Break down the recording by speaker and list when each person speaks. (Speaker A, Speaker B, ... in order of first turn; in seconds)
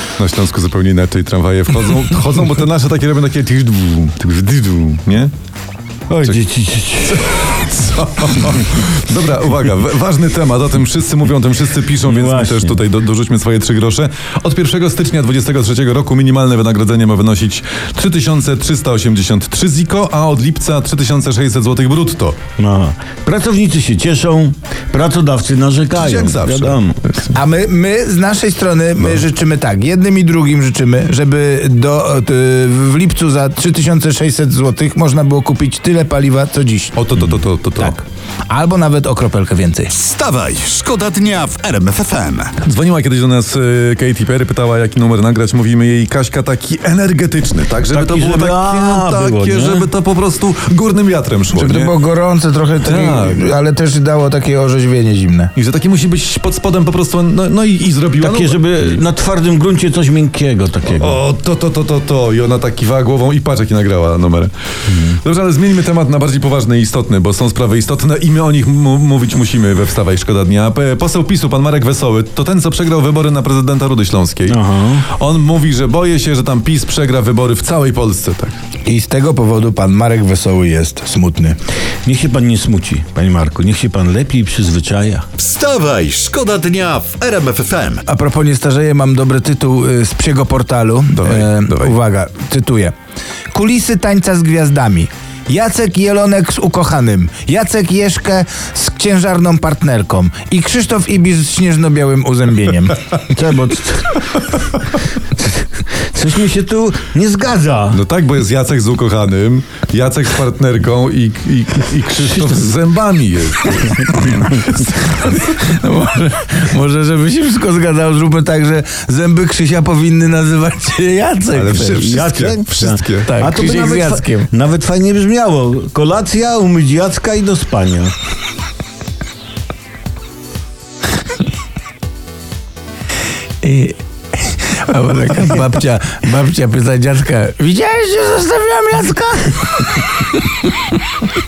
Speaker A: 0.2-5.3, 7.0-22.4, 25.9-27.3, 37.0-38.0, 42.6-51.9, 52.8-53.4, 55.5-59.0, 60.9-64.5, 65.2-78.6, 91.1-91.9, 107.9-115.2, 121.5-123.3
Speaker B: 6.1-7.2, 12.0-12.8, 22.6-27.0, 47.9-49.9, 58.2-61.2, 64.9-65.2, 74.5-75.1, 82.0-85.3, 103.3-104.2, 105.3-108.0, 121.8-128.1
Speaker C: 27.3-37.0, 37.8-39.9, 51.5-55.5, 78.8-81.6, 88.1-92.9, 93.5-103.0, 114.8-122.2, 123.2-124.5, 133.6-140.2
Speaker D: 39.9-42.5, 85.4-88.0